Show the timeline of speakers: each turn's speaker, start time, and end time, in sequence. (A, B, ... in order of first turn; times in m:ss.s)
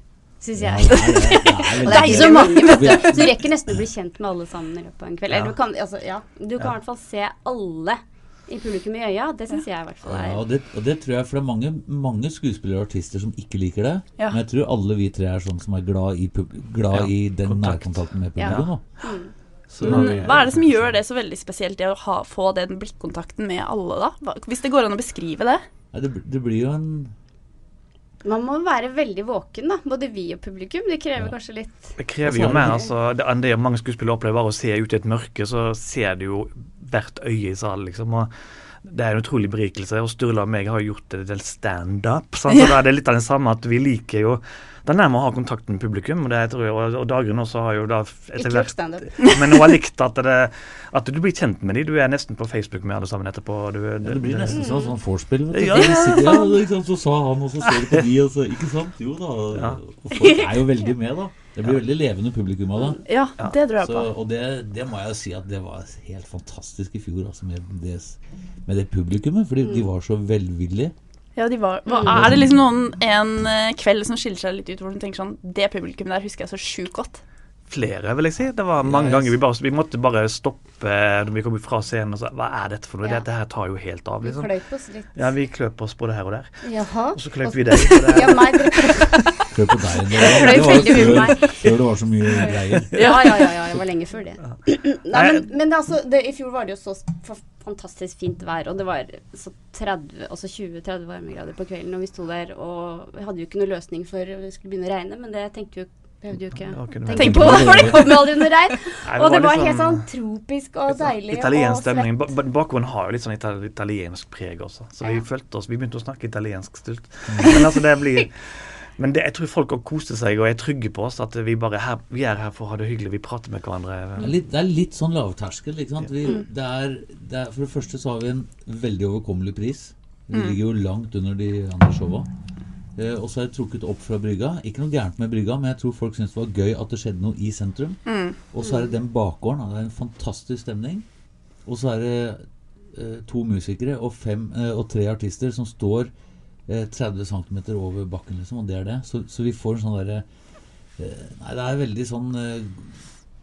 0:00.4-0:10.4 A
0:00.5-0:03.8 B
0:01.7-0:03.2 C
0:05.3-0:05.5 D
0:10.0-0:18.8 B
0:16.9-0:18.7 D
0:18.4-0:19.3 A
0:19.7-0:20.7 D
0:19.7-0:20.7 B
0:19.8-0:25.6 C
0:25.9-0:27.1 B
0:28.2-0:31.9 A
0:32.0-0:38.3 D
0:32.2-0:32.9 B
0:38.8-0:54.7 D
0:48.4-0:49.1 A
0:49.2-0:49.6 C
0:54.0-1:03.0 B
0:54.5-0:54.9 A
0:55.5-0:56.5 D
0:59.5-0:59.8 D
1:00.1-1:00.6 A
1:03.0-1:04.1 C
1:03.8-1:10.9 B
1:11.4-1:17.2 C
1:11.9-1:12.1 A
1:12.1-1:12.4 B
1:17.7-1:24.5 D
1:18.8-1:19.4 B
1:24.2-1:25.3 A
1:25.2-1:29.0 D
1:26.6-1:29.5 A
1:29.5-1:33.2 B
1:30.1-1:31.7 A
1:32.4-1:52.1 A
1:35.1-1:35.5 D
1:46.7-1:47.7 D
1:47.1-1:48.4 C
1:47.1-1:48.3 B
1:49.0-1:50.1 D
1:50.9-2:04.3 D
1:57.3-1:57.6 B
2:04.2-2:12.3 B
2:10.3-2:10.6 C
2:13.0-2:18.0 B
2:18.0-2:18.4 C
2:18.5-2:21.0 B
2:18.6-2:18.9 A
2:21.6-2:26.1 B
2:26.7-2:30.2 B
2:31.0-2:33.0 B